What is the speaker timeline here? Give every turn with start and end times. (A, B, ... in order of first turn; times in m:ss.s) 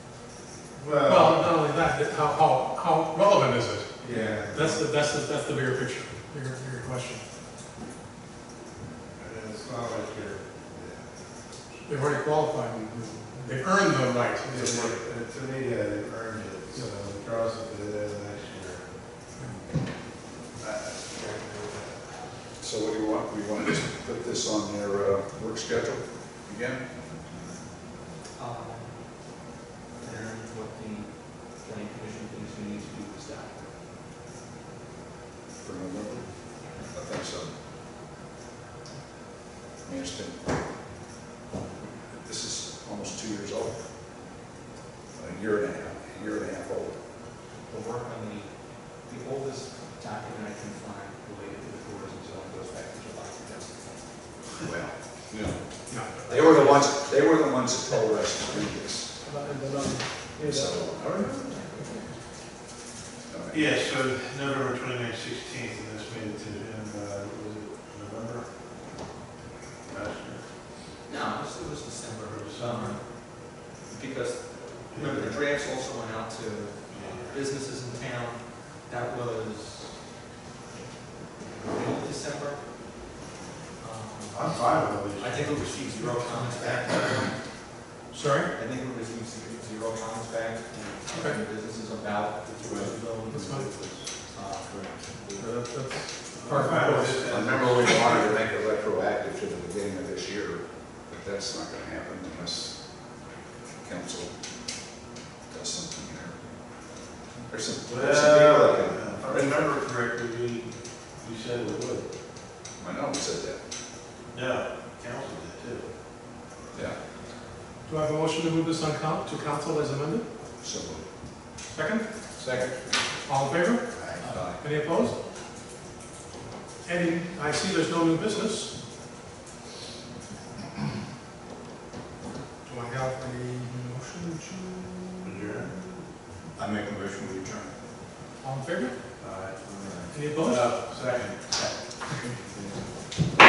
0:00.8-0:01.6 A
0:01.0-0:07.2 B
0:04.0-0:04.8 A
0:04.1-0:04.4 C
0:09.2-0:11.8 A
0:11.8-0:15.0 B
0:14.5-0:19.0 A
0:20.6-0:22.1 A
0:22.6-0:27.2 D
0:28.4-0:29.3 C
0:30.0-0:33.7 C
0:35.6-0:37.5 D
0:39.8-0:40.5 D
0:41.8-0:43.9 D
0:45.2-0:47.0 D
0:47.6-0:54.1 C
0:54.6-0:59.2 D
0:55.9-0:56.9 B
0:56.3-0:56.6 C
0:59.2-1:02.1 B
1:00.4-1:01.6 D
1:01.4-1:02.0 C
1:03.3-1:03.7 D
1:03.5-1:08.6 A
1:09.9-1:10.5 A
1:11.0-1:20.0 C
1:12.3-1:13.0 A
1:14.9-1:15.4 A
1:16.9-1:17.4 A
1:21.5-1:22.7 C
1:23.8-1:27.4 C
1:24.3-1:25.9 A
1:28.1-1:28.5 B
1:28.5-1:35.5 C
1:31.1-1:31.4 B
1:32.7-1:32.9 A
1:33.3-1:33.7 B
1:35.4-1:37.3 B
1:36.3-1:38.3 A
1:37.2-1:43.2 D
1:43.8-1:44.4 D
1:45.5-1:46.5 D
1:47.5-1:49.7 D
1:47.9-1:52.1 A
1:52.8-1:53.6 D
1:54.3-1:55.9 A
1:56.7-1:57.0 D
1:57.9-2:00.3 B
2:00.6-2:01.1 D
2:01.7-2:02.1 B
2:02.4-2:03.0 D
2:03.3-2:05.2 B
2:04.2-2:04.6 C
2:04.2-2:04.6 D
2:06.8-2:08.8 B
2:12.6-2:15.8 B
2:15.2-2:15.8 A
2:18.4-2:19.0 B
2:19.2-2:22.8 A
2:20.1-2:20.8 B